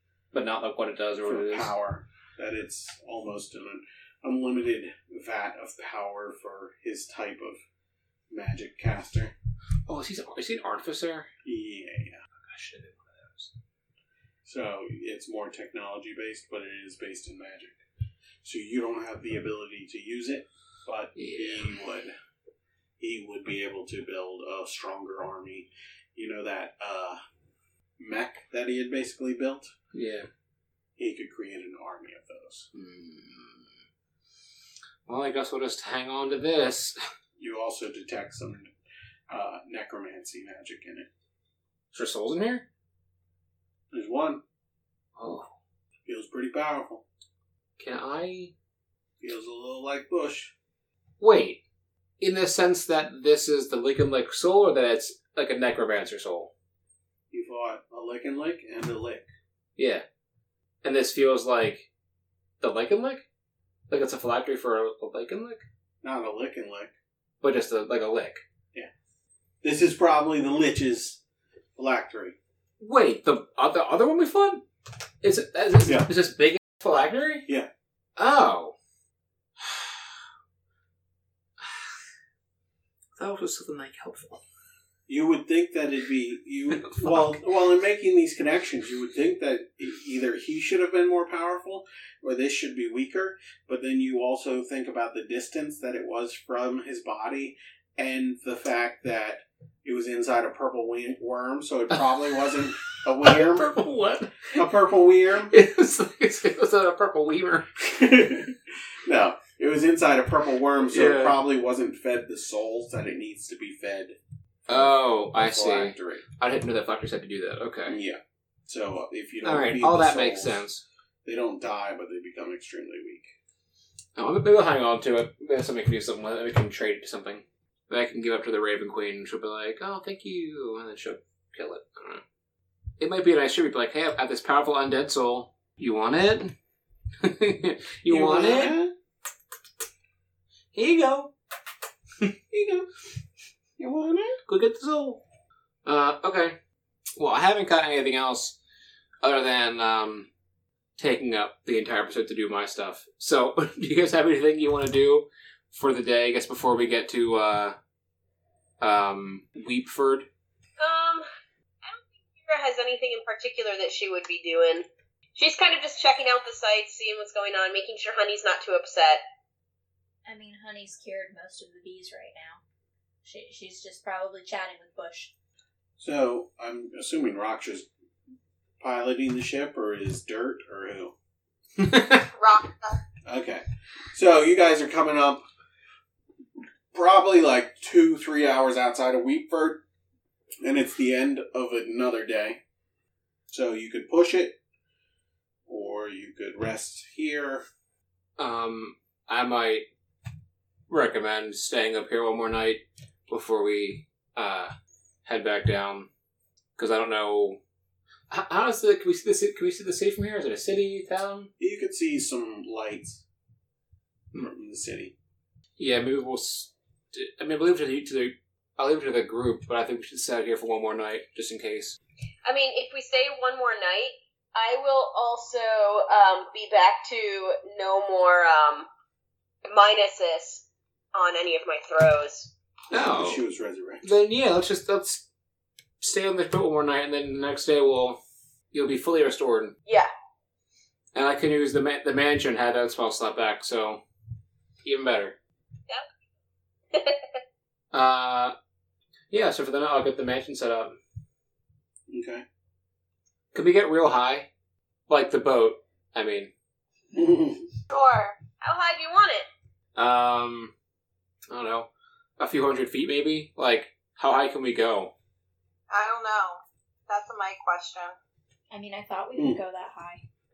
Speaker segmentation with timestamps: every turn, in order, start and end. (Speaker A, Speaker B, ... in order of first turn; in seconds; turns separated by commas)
Speaker A: 0.3-1.7, Speaker B: 1.2-7.6, Speaker B: 8.3-9.3, Speaker A: 9.9-11.3, Speaker B: 11.4-12.2, Speaker A: 12.4-13.5, Speaker B: 14.4-17.8, Speaker B: 18.4-22.1, Speaker A: 21.1-21.7, Speaker B: 23.0-27.2, Speaker B: 28.0-29.7, Speaker A: 29.9-30.3, Speaker B: 31.0-32.7, Speaker A: 32.7-33.7, Speaker A: 35.1-37.0, Speaker B: 37.4-38.7, Speaker B: 39.3-41.1, Speaker A: 41.9-42.6, Speaker B: 43.9-44.4, Speaker A: 45.2-45.5, Speaker B: 46.1-47.0, Speaker A: 47.8-48.5, Speaker B: 49.2-50.5, Speaker A: 51.2-51.6, Speaker A: 52.2-56.5, Speaker B: 57.3-59.3, Speaker A: 59.8-60.0, Speaker A: 60.8-61.9, Speaker A: 62.6-63.2, Speaker A: 63.9-65.6, Speaker B: 66.0-66.9, Speaker A: 67.4-68.4, Speaker B: 69.6-71.2, Speaker B: 71.8-72.4, Speaker A: 72.8-74.6, Speaker A: 75.2-77.5, Speaker A: 78.2-78.7, Speaker A: 79.6-79.9, Speaker A: 83.2-84.4, Speaker B: 85.1-103.8, Speaker A: 103.0-104.7, Speaker B: 104.5-105.5, Speaker A: 105.5-107.7, Speaker B: 107.8-114.2, Speaker A: 110.9-111.4, Speaker B: 114.7-116.2, Speaker A: 114.7-118.0, Speaker B: 117.9-120.6, Speaker A: 119.4-120.8, Speaker B: 121.2-123.3, Speaker A: 124.2-132.2, Speaker A: 133.0-136.5, Speaker A: 137.2-138.8, Speaker B: 138.1-138.9, Speaker A: 140.7-141.3, Speaker B: 142.5-142.9, Speaker B: 143.8-144.4, Speaker A: 144.5-145.2, Speaker A: 145.8-146.6, Speaker A: 147.2-148.6, Speaker A: 149.2-150.3, Speaker A: 151.0-157.8, Speaker A: 158.8-160.3, Speaker C: 160.8-161.3, Speaker C: 161.8-169.2, Speaker D: 170.2-172.6, Speaker D: 173.2-175.3, Speaker B: 176.0-177.9, Speaker B: 178.8-181.1, Speaker A: 181.8-182.2, Speaker E: 182.3-183.0, Speaker B: 183.3-185.4, Speaker B: 186.9-189.8, Speaker B: 190.6-192.6, Speaker B: 193.5-194.6, Speaker B: 195.7-197.6, Speaker A: 198.4-199.9, Speaker A: 200.9-204.7, Speaker A: 205.2-206.1, Speaker A: 206.8-207.6, Speaker A: 208.3-211.5, Speaker B: 211.6-213.2, Speaker B: 214.4-215.1, Speaker A: 215.8-222.0, Speaker C: 222.4-228.9, Speaker C: 229.7-232.5, Speaker A: 232.9-233.4, Speaker B: 232.9-234.1, Speaker A: 234.0-235.2, Speaker A: 236.0-238.2, Speaker A: 238.7-239.8, Speaker A: 241.1-244.0, Speaker A: 244.8-245.4, Speaker C: 246.9-247.2, Speaker A: 247.9-248.6, Speaker A: 249.3-251.0, Speaker B: 252.1-252.4, Speaker A: 253.5-254.5, Speaker A: 255.1-256.5, Speaker B: 257.1-257.7, Speaker E: 257.9-258.4, Speaker C: 258.6-259.4, Speaker A: 259.9-260.7, Speaker A: 261.5-261.9, Speaker A: 262.4-265.1, Speaker E: 265.9-268.1, Speaker D: 268.7-270.2, Speaker B: 269.4-269.6